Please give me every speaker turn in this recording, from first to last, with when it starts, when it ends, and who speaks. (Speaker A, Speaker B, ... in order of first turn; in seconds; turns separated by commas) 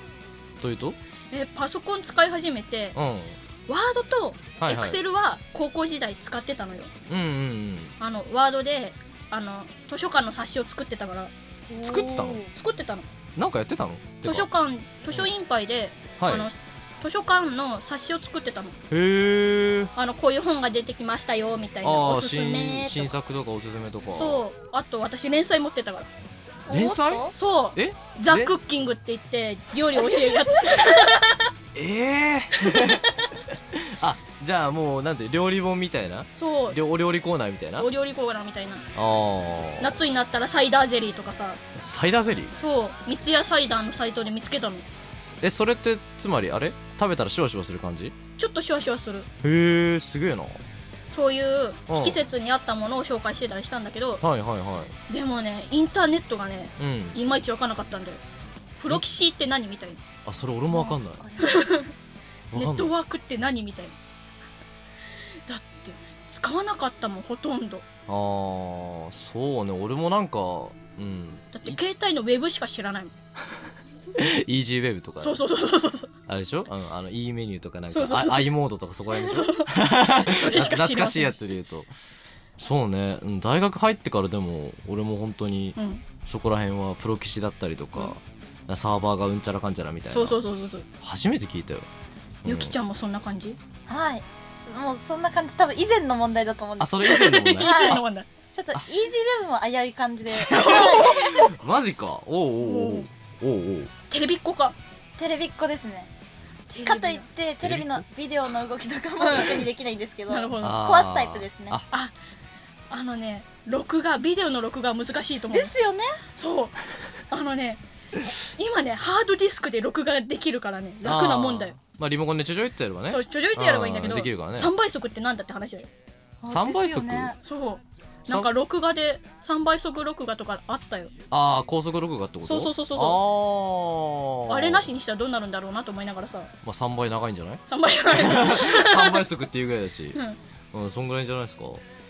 Speaker A: 0.6-1.0, Speaker B: 1.3-3.0, Speaker A: 2.9-3.4, Speaker B: 3.7-6.9, Speaker A: 4.6-5.0, Speaker A: 7.1-7.9, Speaker B: 8.0-11.3, Speaker A: 11.8-12.5, Speaker B: 11.8-13.1, Speaker A: 13.3-14.5, Speaker B: 14.2-18.8, Speaker A: 16.2-16.5, Speaker A: 18.9-19.9, Speaker B: 19.9-23.1, Speaker A: 21.8-24.4, Speaker B: 24.1-26.1, Speaker B: 26.7-31.5, Speaker A: 26.7-28.5, Speaker A: 31.7-33.1, Speaker B: 32.6-33.0, Speaker A: 33.7-37.9, Speaker B: 36.4-36.8, Speaker B: 37.8-38.9, Speaker A: 38.9-40.0, Speaker B: 39.8-41.6, Speaker A: 41.8-42.5, Speaker B: 42.5-44.9, Speaker A: 45.4-48.1, Speaker B: 48.4-49.3, Speaker A: 49.4-50.6, Speaker B: 51.1-54.2, Speaker A: 51.9-52.2, Speaker A: 54.2-55.0, Speaker B: 55.1-58.2, Speaker A: 56.8-57.2, Speaker B: 58.8-60.0, Speaker A: 60.2-61.4, Speaker B: 60.7-61.9, Speaker A: 62.5-62.9, Speaker B: 62.5-64.0, Speaker B: 65.5-67.8, Speaker A: 68.1-71.8, Speaker B: 71.5-73.1, Speaker A: 74.2-75.4, Speaker B: 75.2-76.1, Speaker A: 76.3-81.9, Speaker B: 77.9-78.5, Speaker B: 79.1-81.4, Speaker A: 82.6-90.4, Speaker B: 85.8-86.0, Speaker B: 90.1-90.9, Speaker A: 91.0-91.9, Speaker A: 92.4-92.8, Speaker B: 92.4-93.6, Speaker C: 93.9-97.0, Speaker A: 96.8-98.0, Speaker B: 97.0-98.3, Speaker C: 97.6-101.5, Speaker A: 100.3-103.9, Speaker B: 100.5-101.2, Speaker B: 102.6-103.1, Speaker B: 104.1-104.8, Speaker C: 105.2-106.1, Speaker B: 106.7-107.3, Speaker C: 106.8-111.8, Speaker A: 107.6-108.0, Speaker B: 109.2-109.7, Speaker B: 110.3-110.8, Speaker A: 110.6-111.9, Speaker B: 112.9-115.7, Speaker C: 115.5-116.2, Speaker B: 116.3-116.8, Speaker B: 117.3-121.8, Speaker A: 121.0-124.7, Speaker B: 123.1-125.9, Speaker C: 126.4-127.4, Speaker A: 126.5-127.3, Speaker B: 127.4-131.1, Speaker A: 131.3-134.9, Speaker B: 132.4-133.2, Speaker B: 134.5-136.5, Speaker A: 136.6-140.2, Speaker B: 137.7-139.2, Speaker A: 140.7-141.8